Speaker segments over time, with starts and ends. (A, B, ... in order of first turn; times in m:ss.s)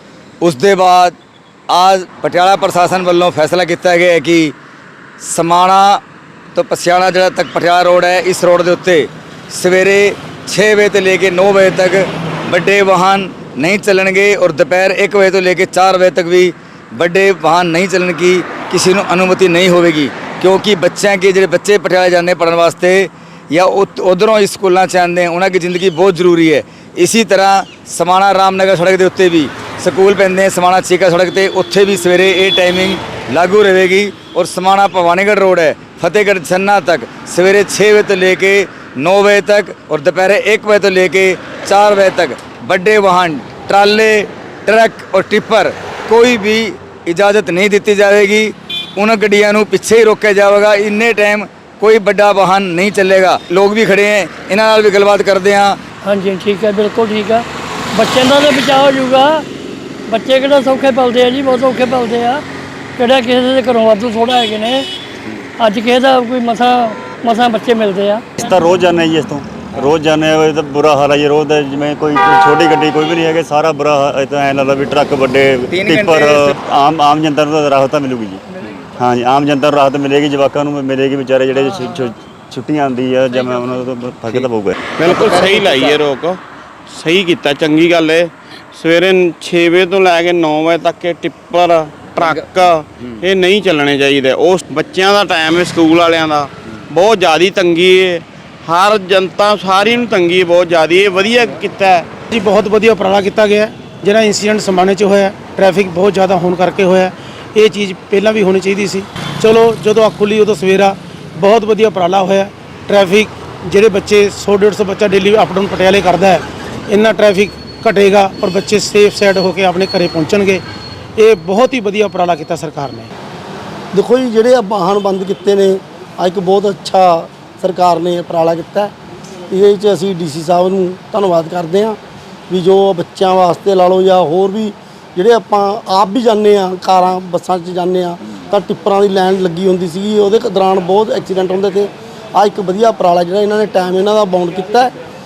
0:00.4-0:01.2 A
0:01.7-0:04.5 A
0:05.2-0:06.0 A
0:06.5-0:55.8 A
0:56.0-0:59.4 B
1:00.1-1:02.4 B
1:03.0-1:04.9 B
1:05.6-1:08.6 B
1:08.4-1:18.4 C
1:15.7-1:16.5 A
1:19.0-1:24.8 C
1:24.3-1:42.1 D
1:25.1-1:25.9 A
1:42.3-1:56.4 E
1:56.9-2:00.6 E
2:01.2-2:03.1 E
2:03.9-2:08.9 F
2:09.5-2:12.0 F
2:12.5-2:24.9 F